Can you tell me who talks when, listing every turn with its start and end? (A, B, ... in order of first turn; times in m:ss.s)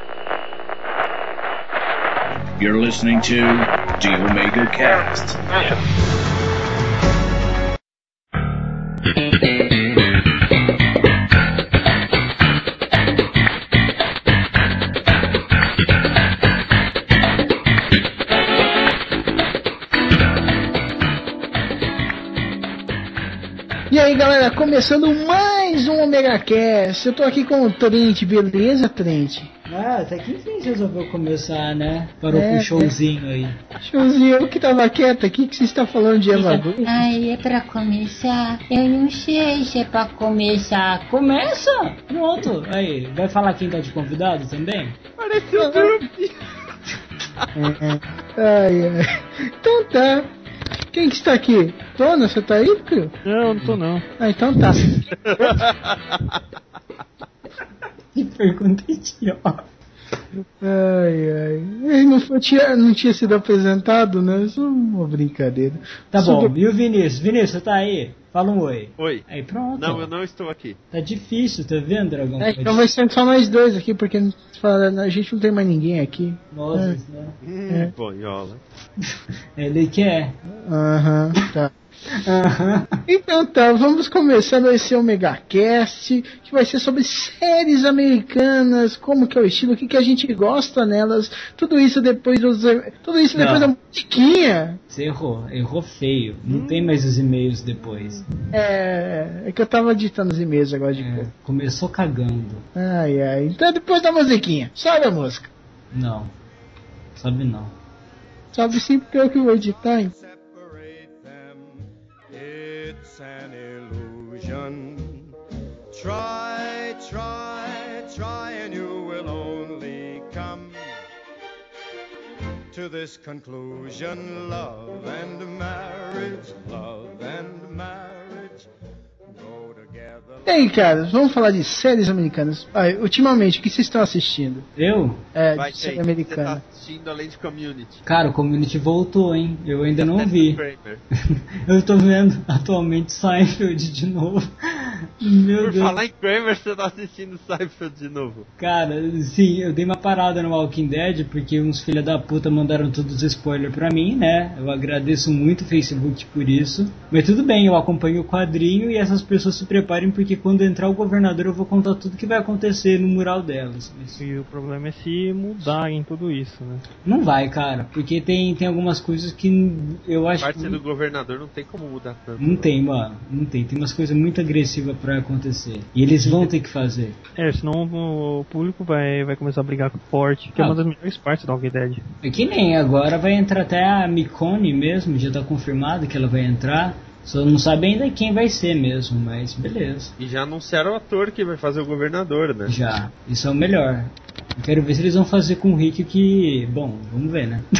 0:02.6-0:05.4 A
0:23.9-0:29.5 B
0:29.7-0:33.6 C
0:32.3-0:32.9 B
0:33.8-0:36.9 B
0:36.4-0:36.9 C
0:36.8-0:40.4 D
0:38.7-0:45.0 C
0:45.2-0:46.3 E
0:45.5-0:46.1 B
0:47.5-0:50.3 B
0:50.9-0:53.1 B
0:53.2-0:54.0 F
0:53.6-0:55.6 B
0:55.2-0:56.4 E
0:58.1-0:59.6 C
1:00.6-1:06.5 B
1:06.1-1:10.1 C
1:09.0-1:09.2 E
1:09.8-1:10.8 E
1:10.9-1:12.8 C
1:12.4-1:17.0 B
1:16.5-1:17.4 C
1:17.4-1:18.6 E
1:17.7-1:17.9 B
1:19.6-1:20.4 C
1:20.6-1:22.2 B
1:22.2-1:23.0 C
1:23.1-1:34.8 B
1:33.3-1:33.7 C
1:34.9-1:38.2 C
1:36.5-1:36.9 F
1:37.8-1:38.3 F
1:38.5-1:41.3 B
1:40.9-1:42.7 C
1:42.8-1:45.5 B
1:45.9-1:46.3 C
1:47.2-1:47.7 C
1:48.5-1:50.1 B
1:49.7-1:55.3 G
1:55.9-2:00.8 G
2:02.7-2:08.7 G
2:09.3-2:10.9 G
2:10.4-2:14.6 B
2:14.8-2:15.2 C
2:15.3-2:16.6 B
2:15.5-2:18.0 E
2:18.0-2:20.6 C
2:20.0-2:21.0 E
2:21.3-2:26.0 C
2:25.6-2:28.5 E
2:28.6-2:44.2 C
2:44.2-2:46.8 F
2:47.0-2:50.8 C
2:50.4-2:52.7 E
2:52.4-2:57.2 C
2:57.4-3:02.0 F
3:02.2-3:10.1 C
3:10.2-3:12.8 E
3:12.7-3:17.6 C